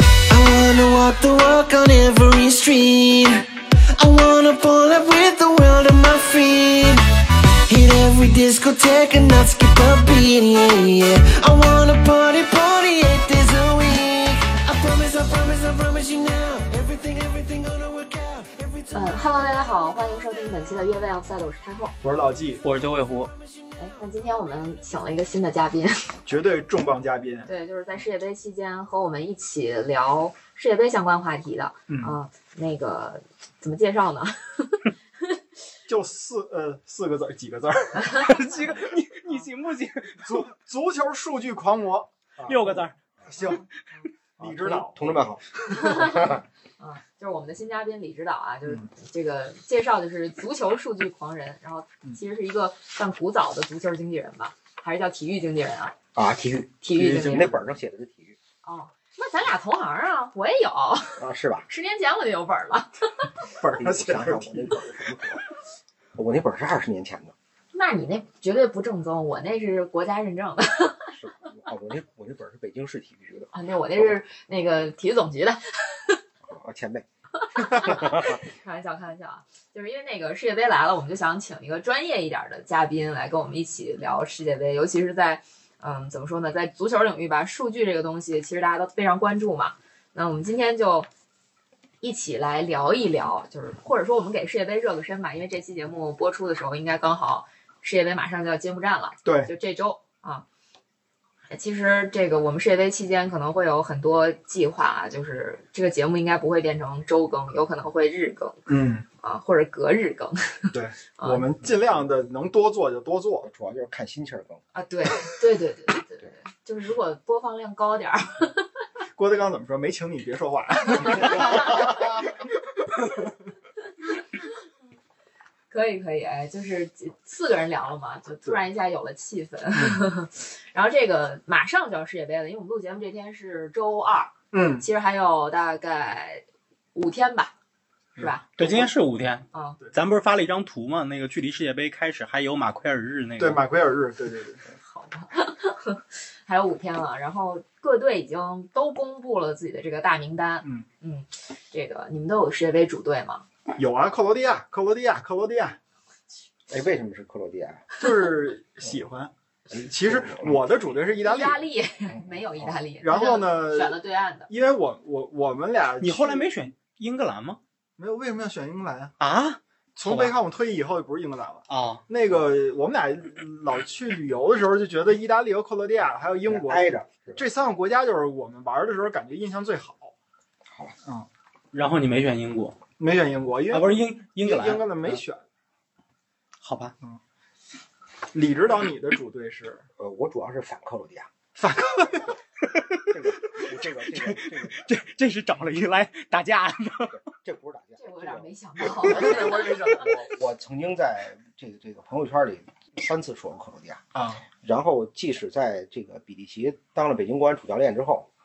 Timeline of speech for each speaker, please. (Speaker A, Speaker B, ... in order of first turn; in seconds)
Speaker A: 0.3-3.5, 4.0-7.0, 7.7-19.1, 23.3-23.8
Speaker B: 18.9-21.9, 23.8-26.2, 27.5-34.9, 38.0-39.4, 45.7-55.9, 56.8-57.6, 58.6-63.3, 67.7-71.1, 73.5-76.2, 77.4-91.1, 92.0-100.5, 101.5-111.4, 114.7-118.7, 125.7-137.5, 138.2-138.5, 139.5-139.8, 144.8-153.4, 161.2-164.5, 198.0-199.9
Speaker C: 22.0-22.6, 26.3-27.5, 31.9-32.2, 35.9-38.2, 40.2-43.6, 44.4-45.3, 57.0-57.5, 63.4-64.7, 99.2-99.5, 108.7-109.1, 110.7-113.5, 119.2-122.4, 129.7-130.1, 134.5-134.9, 138.2-138.9, 143.4-144.6, 153.8-155.8, 158.0-161.6, 163.0-164.0, 164.5-166.5, 168.0-169.1, 170.0-180.1, 183.0-185.4, 188.3-189.8, 191.6-192.4, 199.0-200.2, 204.2-204.4
Speaker D: 22.6-23.3, 38.2-40.5, 42.5-43.0, 138.6-143.6, 166.0-167.6, 169.2-170.3, 171.7-172.0, 181.7-182.8, 183.7-185.2, 186.6-186.9, 192.7-197.2
Speaker E: 44.4-46.4, 56.1-58.4, 61.2-61.7, 63.8-65.4, 66.2-67.3, 71.1-74.2, 76.4-77.0, 77.7-78.4, 113.4-114.6, 156.7-157.9, 159.7-160.6, 162.1-162.8, 176.5-177.4, 180.7-180.9, 190.0-191.3, 193.1-194.9, 197.1-204.0, 204.6-208.3